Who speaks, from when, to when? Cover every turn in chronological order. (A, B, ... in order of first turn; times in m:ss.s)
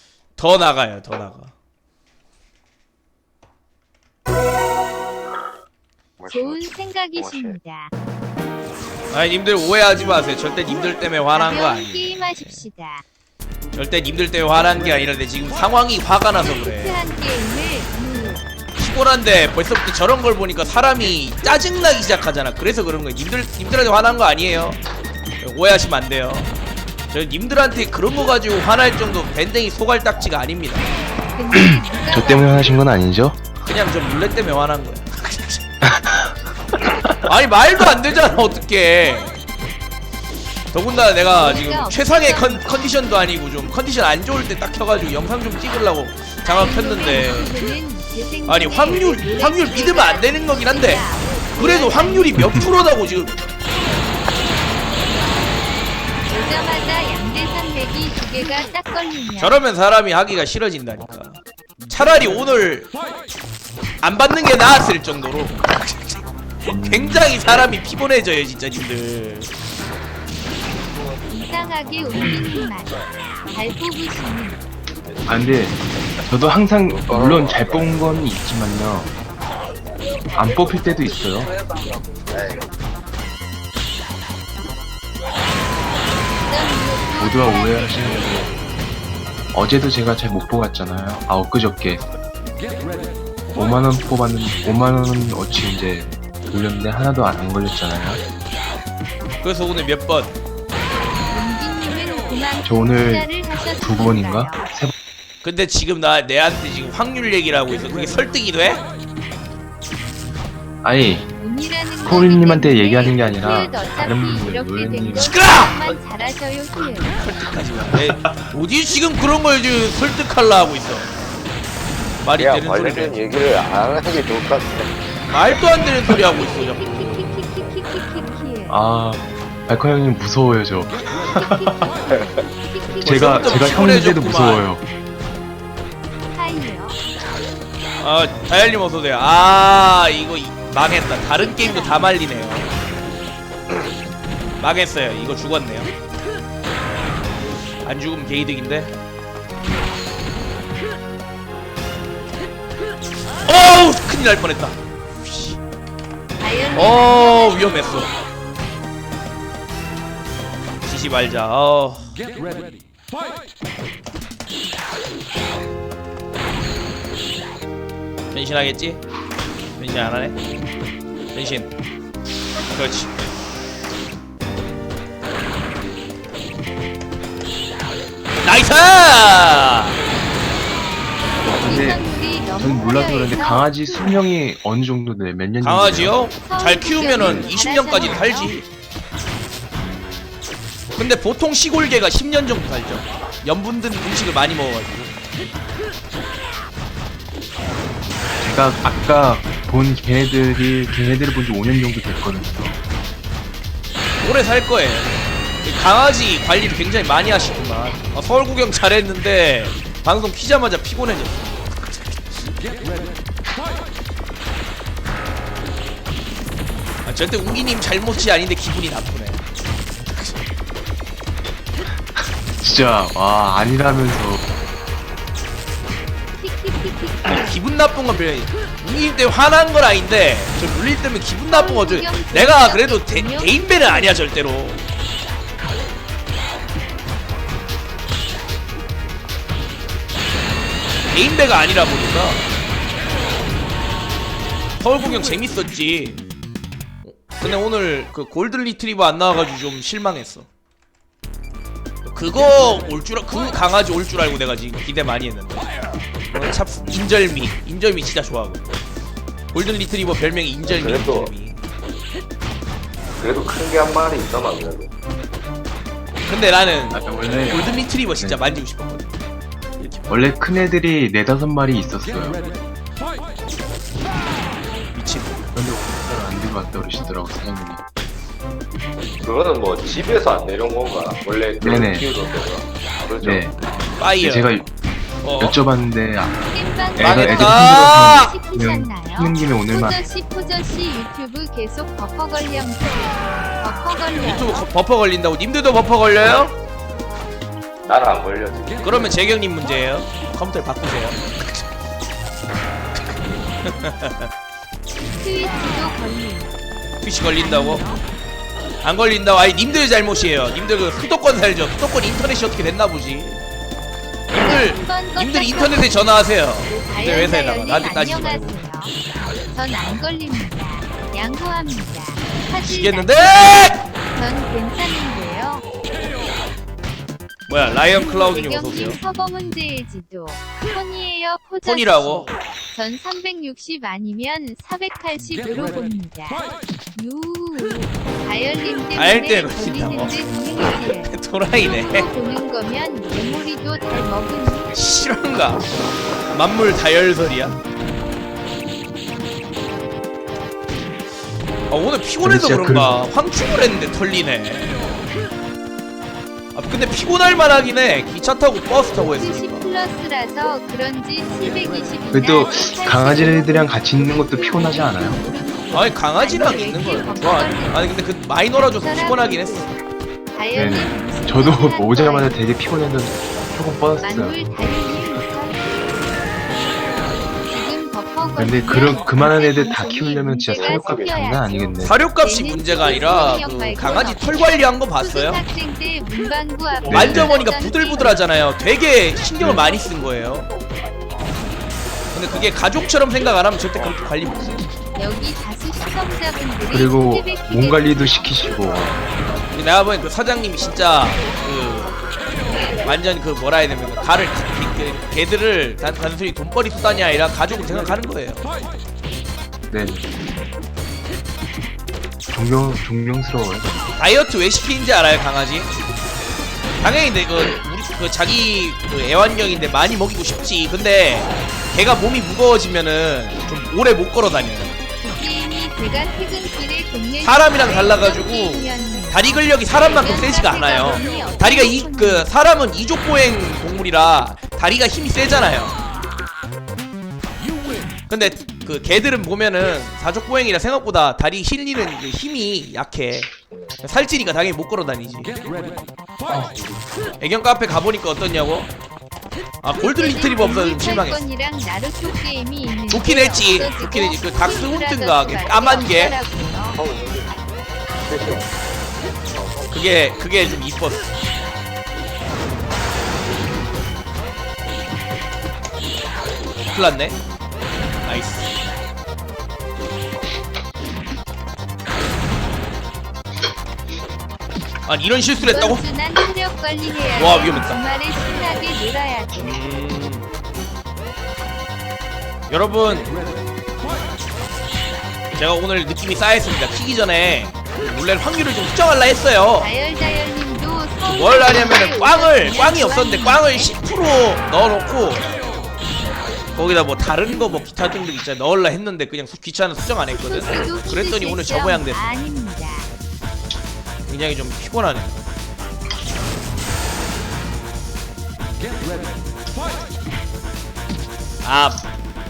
0:00.4-0:01.5 A
0:06.2-0:07.6 B
0:06.3-0:07.9 C
0:09.1-0:12.6 A
0:10.7-0:13.0 C
0:13.7-0:17.0 A
0:16.3-0:18.4 C
0:18.8-0:24.8 A
0:25.4-0:26.5 A
0:27.1-0:30.9 A
0:31.3-0:32.8 C
0:31.5-0:33.4 D
0:33.6-0:35.6 A
0:35.8-0:36.3 D
0:37.2-0:39.4 A
0:40.7-0:47.5 A
0:41.3-0:43.2 C
0:46.4-0:53.3 C
0:48.4-0:53.3 A
0:56.3-0:59.6 C
0:59.4-1:02.9 A
1:04.0-1:09.5 A
1:06.6-1:07.3 D
1:11.3-1:14.6 C
1:12.1-1:12.5 D
1:15.3-1:19.1 D
1:16.8-1:18.1 B
1:20.3-1:21.5 D
1:22.3-1:22.7 B
1:26.5-1:28.4 C
1:27.2-1:28.5 D
1:29.5-1:32.0 D
1:33.5-1:38.2 D
1:39.4-1:40.4 A
1:41.3-1:44.7 C
1:42.6-1:44.9 D
1:45.4-1:48.8 A
1:50.8-1:51.2 D
1:51.4-1:57.2 C
1:52.0-1:55.3 D
1:55.1-1:55.8 A
1:57.2-2:01.1 A
1:58.1-1:58.3 D
2:02.2-2:03.2 A
2:02.4-2:04.9 B
2:05.3-2:06.8 A
2:06.3-2:08.8 C
2:08.7-2:11.9 D
2:11.3-2:13.8 C
2:12.1-2:12.4 B
2:13.0-2:14.7 A
2:13.0-2:14.8 D
2:16.3-2:17.0 C
2:18.0-2:22.7 A
2:21.2-2:22.2 C
2:24.6-2:25.9 A
2:27.8-2:28.9 A
2:33.4-2:35.6 A
2:36.4-2:38.1 C
2:36.7-2:38.1 A
2:40.8-2:42.1 A
2:48.3-2:49.0 A
2:49.8-2:50.4 A
2:51.3-2:51.7 A
2:52.7-2:53.1 A
2:58.4-3:00.0 A
3:01.4-3:04.2 C
3:01.4-3:06.3 D
3:05.6-3:08.6 A
3:06.4-3:08.6 C
3:07.0-3:07.5 D
3:11.0-3:15.1 A
3:18.4-3:22.8 D
3:24.2-3:32.5 A
3:37.0-3:39.4 A
3:40.1-3:40.3 A
3:42.1-3:44.4 D
3:46.4-3:47.6 C
3:47.3-3:54.8 A
3:51.5-3:54.2 C
4:01.1-4:02.5 A
4:04.8-4:06.2 A
4:07.0-4:10.5 A
4:12.0-4:15.7 A
4:16.3-4:18.7 A
4:19.5-4:21.6 A
4:20.6-4:21.3 B
4:23.2-4:24.9 B
4:26.2-4:29.1 A
4:26.9-4:28.4 D
4:29.8-4:30.3 A
4:30.1-4:32.4 D
4:34.9-4:35.4 A
4:35.5-4:37.8 D
4:39.2-4:43.5 B
4:41.6-4:42.1 D
4:43.2-4:43.5 D
4:43.9-4:44.7 A
4:44.2-4:44.7 D
4:45.2-4:45.6 A
4:45.4-4:46.4 D
4:46.2-4:54.7 C
4:46.9-4:50.0 D
4:47.0-4:48.3 A
4:54.2-4:56.6 A
4:57.8-4:58.9 B
4:58.8-5:01.6 A
5:03.6-5:04.3 A
5:05.1-5:06.6 C
5:07.0-5:07.8 A
5:07.2-5:08.0 C
5:08.8-5:13.4 A
5:14.3-5:18.6 A
5:14.3-5:18.9 C
5:19.5-5:25.6 C
5:22.6-5:23.9 A
5:27.5-5:29.0 A
5:27.6-5:44.8 C
5:31.6-5:32.3 A
5:38.9-5:42.1 A
5:44.7-5:45.6 A
5:46.3-5:47.6 A
5:51.7-5:55.0 A
5:52.2-5:53.0 D
5:56.5-5:59.7 A
5:58.9-6:09.8 C
6:02.1-6:05.2 D
6:05.7-6:09.7 A
6:10.3-6:12.5 C
6:10.5-6:14.4 D
6:14.0-6:16.0 C
6:17.5-6:28.3 C
6:18.4-6:22.0 D
6:20.5-6:21.3 B
6:21.8-6:25.4 A
6:26.9-6:27.4 D
6:26.9-6:30.5 A
6:29.4-6:29.7 D
6:32.1-6:34.7 A
6:34.9-6:38.4 C
6:36.7-6:39.0 D
6:39.5-6:41.9 A
6:42.8-6:48.4 A
6:49.7-6:50.1 D
6:52.3-6:53.7 D
6:54.0-6:55.7 A
6:56.8-7:04.8 A
7:05.0-7:12.3 C
7:07.2-7:15.8 A
7:18.1-7:25.3 A
7:26.3-7:26.7 D
7:27.2-7:28.7 A
7:29.6-7:31.2 A
7:29.8-7:36.8 C
7:32.9-7:36.2 A
7:36.7-7:37.4 B
7:38.0-7:38.5 B
7:39.2-7:39.8 B
7:39.7-7:41.1 A
7:46.6-7:47.2 A
7:48.0-7:48.5 A
7:54.8-7:55.8 A
7:55.4-7:59.8 C
7:57.1-7:57.8 A
7:59.4-8:00.3 A
8:02.5-8:03.2 A
8:05.3-8:09.7 A
8:09.6-8:13.7 C
8:11.0-8:15.3 A
8:16.5-8:22.1 A
8:20.1-8:22.9 C
8:24.1-8:25.2 A
8:31.4-8:31.8 A